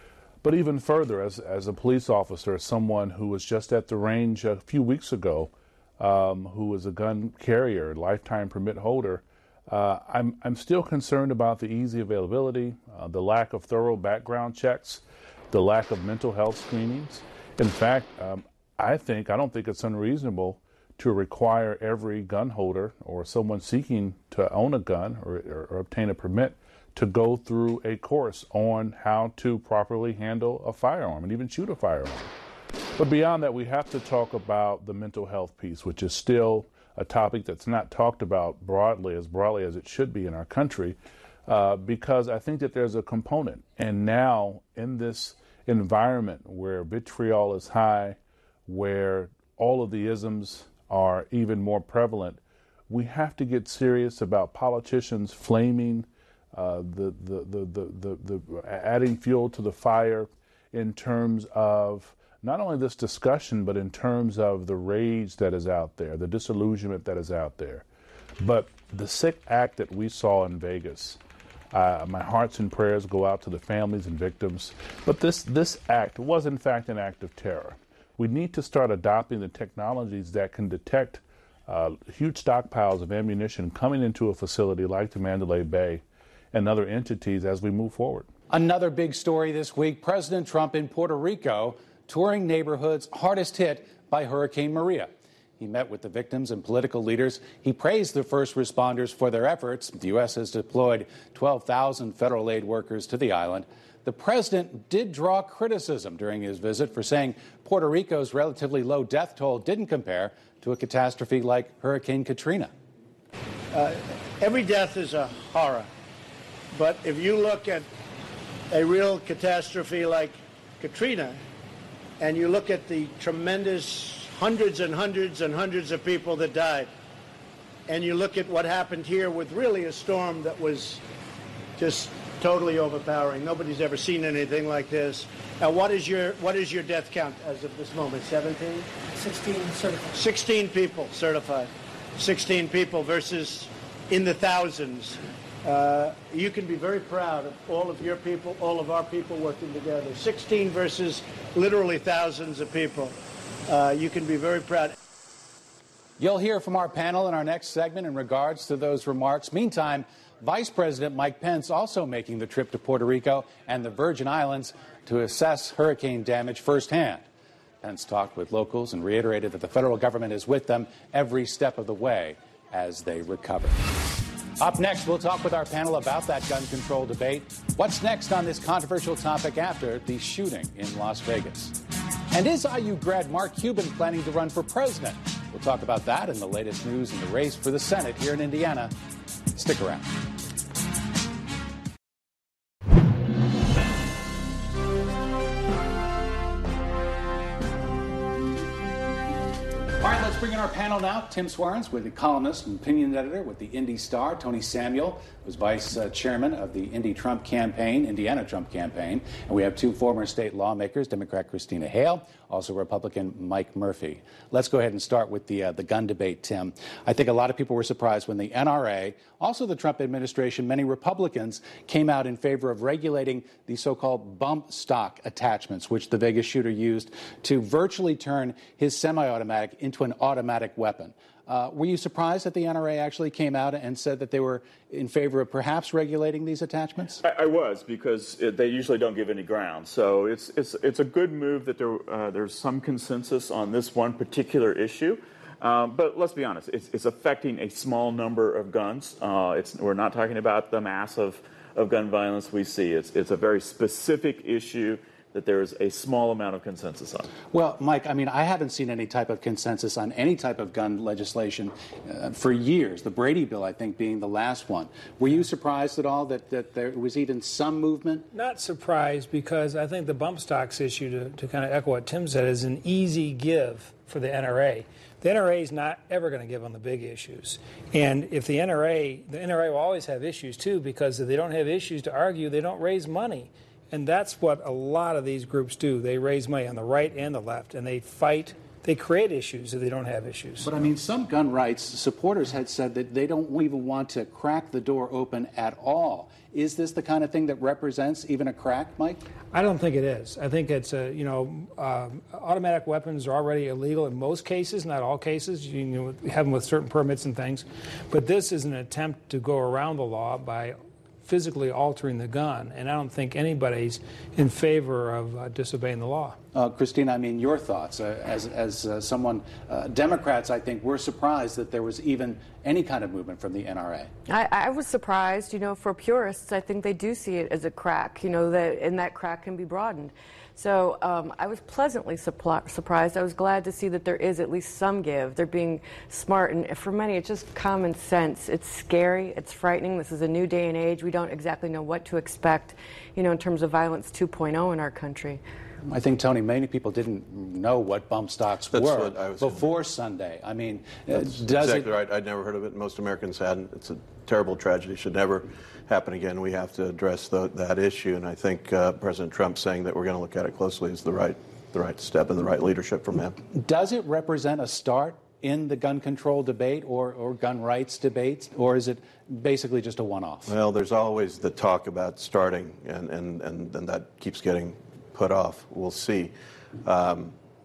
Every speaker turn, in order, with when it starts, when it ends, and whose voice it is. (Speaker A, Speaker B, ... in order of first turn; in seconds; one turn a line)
Speaker A: 0.4-32.3
Speaker A: 33.0-67.9
Speaker A: 68.4-71.2
Speaker A: 71.7-88.3
Speaker B: 88.5-112.7
Speaker C: 113.7-115.9
Speaker C: 116.7-117.9
Speaker C: 118.7-121.4
Speaker C: 122.2-126.9
Speaker C: 127.9-131.0
Speaker C: 131.8-138.9
Speaker C: 140.0-153.1
Speaker C: 153.7-154.9
Speaker B: 156.2-167.2
Speaker B: 167.8-173.8
Speaker B: 174.6-181.8
Speaker B: 182.3-188.9
Speaker B: 189.6-190.1
Speaker B: 200.0-237.2
Speaker D: 237.2-257.3
Speaker B: 257.5-268.3
Speaker E: 268.3-290.8
Speaker B: 290.6-299.2
Speaker E: 299.5-316.4
Speaker B: 316.5-324.1
Speaker F: 324.3-345.4
Speaker B: 345.9-351.9
Speaker G: 348.7-349.6
Speaker G: 351.1-363.4
Speaker B: 363.5-370.5
Speaker G: 370.5-377.4